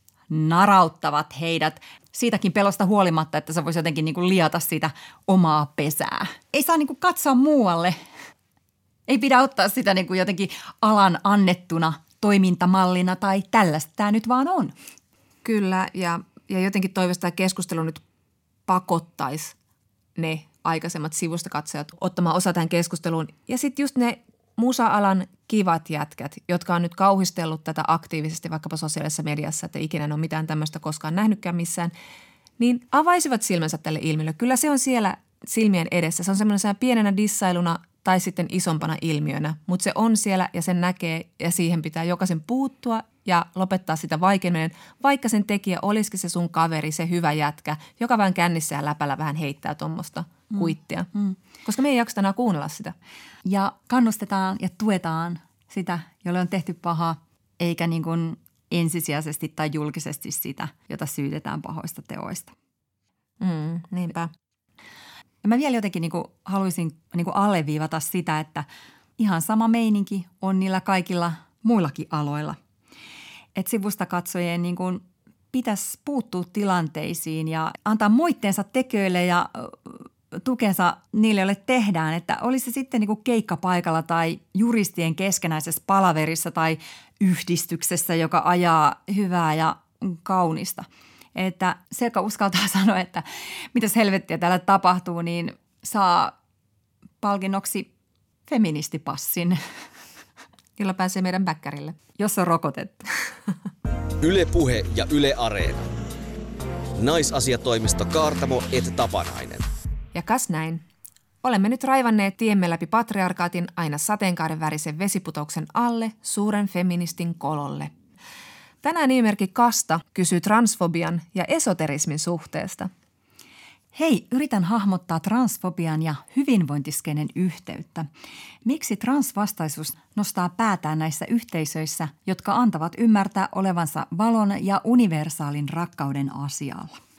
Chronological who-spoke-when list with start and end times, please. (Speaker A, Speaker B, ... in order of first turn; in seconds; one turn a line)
Speaker A: 0.3-8.0
Speaker A: 9.1-14.7
Speaker B: 15.4-18.0
Speaker B: 18.7-19.6
Speaker B: 20.2-31.9
Speaker B: 32.6-51.1
Speaker A: 50.5-51.4
Speaker B: 51.6-53.0
Speaker A: 53.5-62.5
Speaker B: 63.4-64.3
Speaker A: 65.4-68.7
Speaker A: 69.2-72.6
Speaker A: 73.5-96.3
Speaker A: 97.2-97.9
Speaker A: 98.5-99.6
Speaker B: 100.8-102.0
Speaker A: 102.2-103.1
Speaker C: 104.2-106.0
Speaker C: 107.0-109.6
Speaker B: 110.1-110.8
Speaker B: 111.4-117.9
Speaker B: 118.8-122.9
Speaker A: 123.9-128.1
Speaker A: 128.7-137.0